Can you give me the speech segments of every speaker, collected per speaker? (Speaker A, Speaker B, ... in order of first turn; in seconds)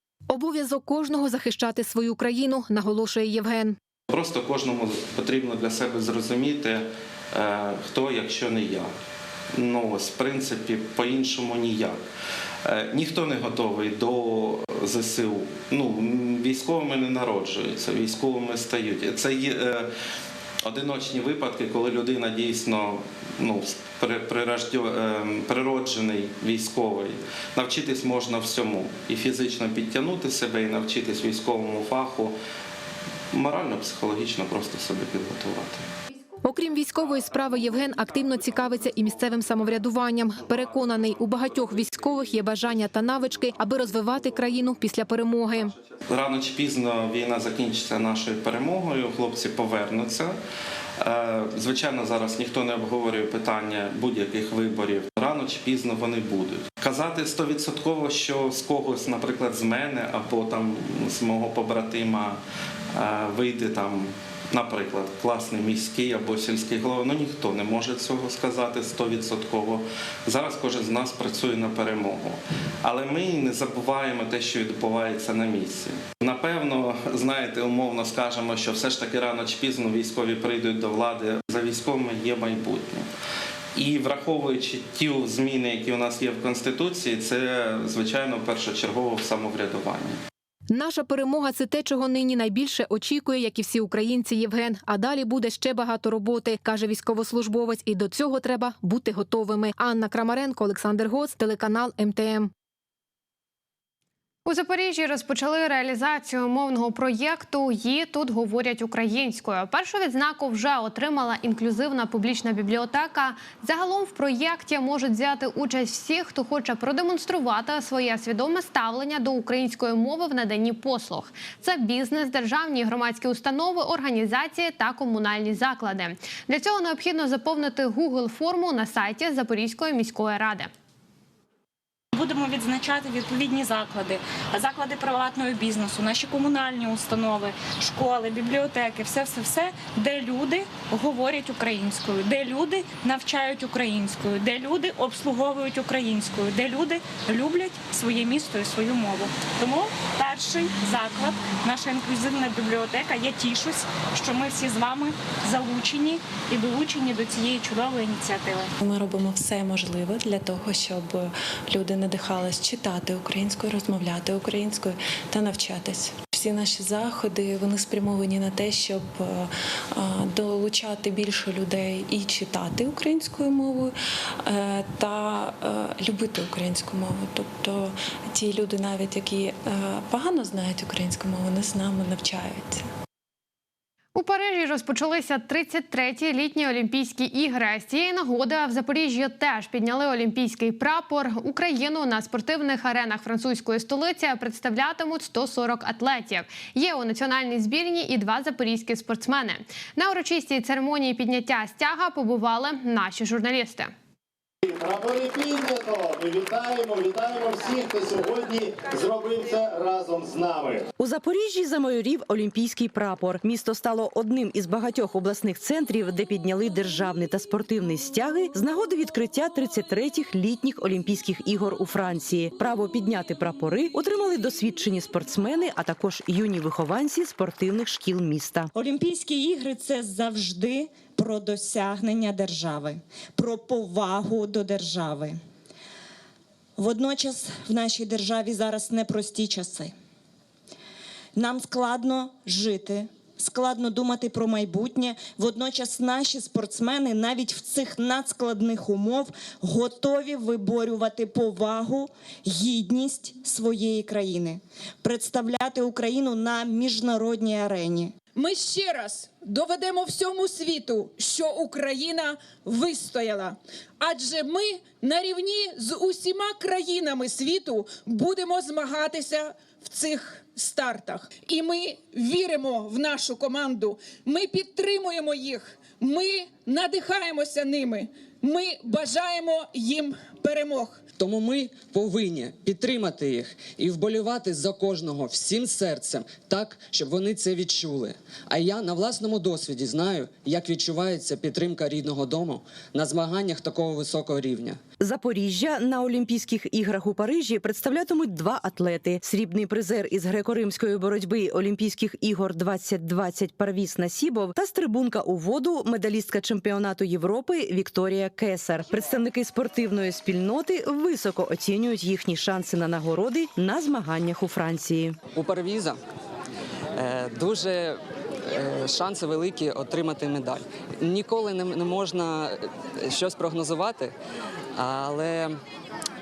Speaker A: 0.3-3.8, 36.4-45.7, 90.7-102.5
Speaker B: 4.1-8.9, 9.5-12.0, 12.7-19.9, 20.6-32.4, 33.3-35.9, 46.1-50.4, 51.0-62.4, 62.9-83.1, 83.8-90.2
Speaker C: 104.5-130.7, 184.2-203.9
Speaker D: 132.1-158.7
Speaker E: 158.8-182.9
Speaker F: 204.6-210.9
Speaker G: 211.0-228.7, 295.0-315.2
Speaker H: 228.8-235.4, 236.8-239.9, 241.3-258.1
Speaker I: 258.4-281.0
Speaker J: 281.2-294.8, 315.3-316.0, 316.9-324.1, 324.8-325.6